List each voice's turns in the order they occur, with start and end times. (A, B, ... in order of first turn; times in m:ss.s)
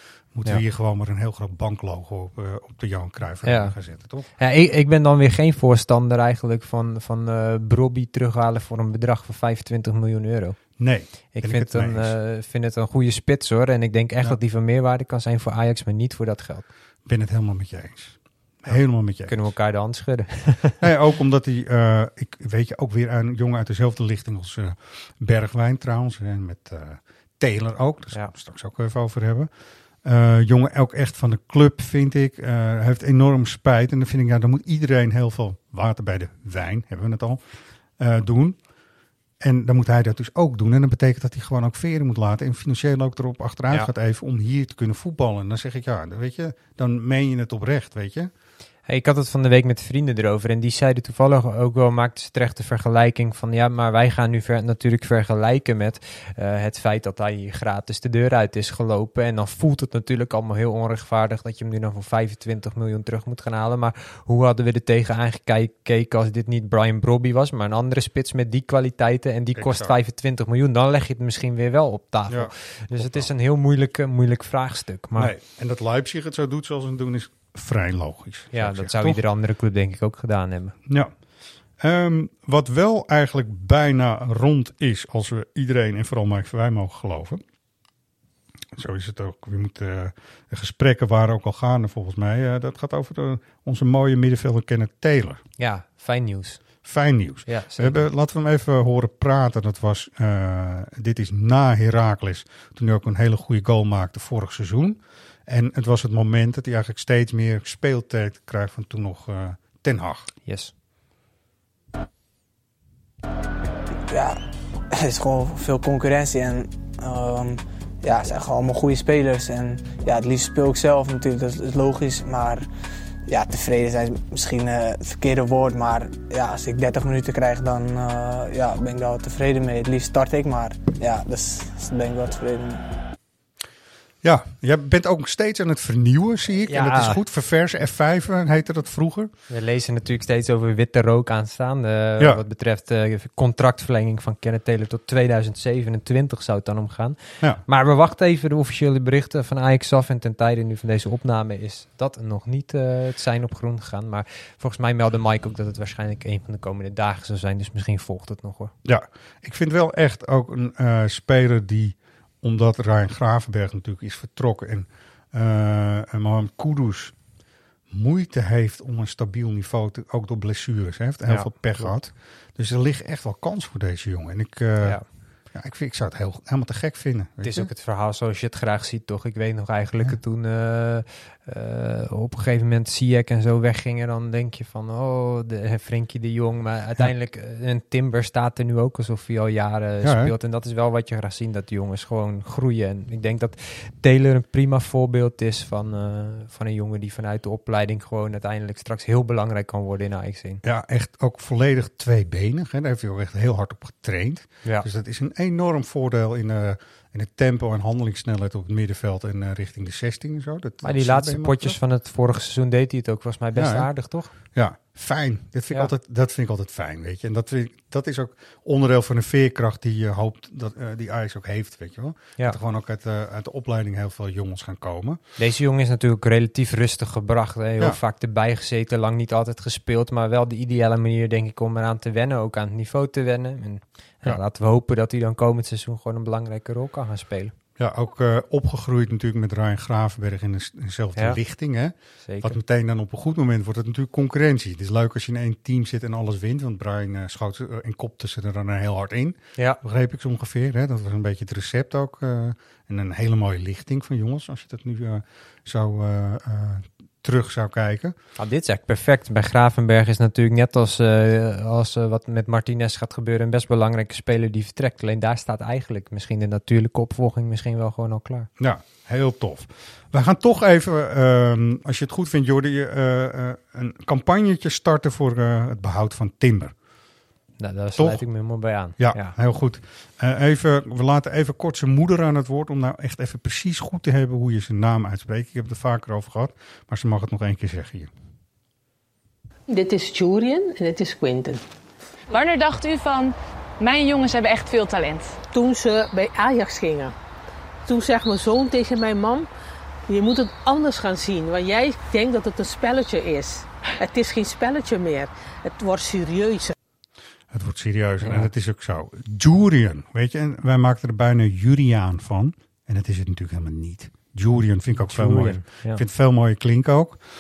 0:00.3-0:04.3 A
0:03.4-0:03.8 B
0:04.4-0:16.7 B
0:10.8-0:12.2 A
0:17.0-0:19.4 A
0:18.7-0:20.8 B
0:20.8-0:29.5 A
0:30.0-0:37.4 A
0:38.0-0:38.6 A
0:39.4-0:48.3 A
0:48.9-1:15.3 B
1:09.6-1:10.0 A
1:12.3-1:13.3 A
1:15.2-1:19.2 A
1:18.5-1:20.8 B
1:21.8-1:27.4 A
1:28.8-1:35.4 A
1:35.6-1:36.7 B
1:36.8-1:50.3 A
1:37.5-1:38.0 B
1:50.5-1:50.7 B
1:54.1-1:54.4 C
1:54.9-2:02.7 C
2:03.3-2:12.8 C
2:14.2-2:19.3 A
2:16.6-2:17.2 B
2:19.5-2:38.7 B
2:22.2-2:22.4 A
2:38.8-2:47.2 A
2:47.9-2:57.7 A
2:51.3-2:52.0 B
2:57.4-3:20.6 B
3:10.0-3:10.3 A
3:20.6-3:31.8 A
3:30.8-3:34.3 B
3:33.5-3:45.2 A
3:45.4-3:57.5 B
3:57.8-4:18.2 A
4:02.2-4:02.6 B
4:18.4-4:28.5 B
4:28.6-4:36.7 A
4:37.6-4:39.4 B
4:38.0-4:38.2 A
4:39.0-4:48.1 A
4:49.7-4:51.6 D
4:52.3-4:55.4 E
4:55.5-4:57.2 D
4:57.8-4:59.5 D
5:00.1-5:06.8 D
5:07.5-5:17.2 A
5:08.2-5:08.5 B
5:15.0-5:16.0 B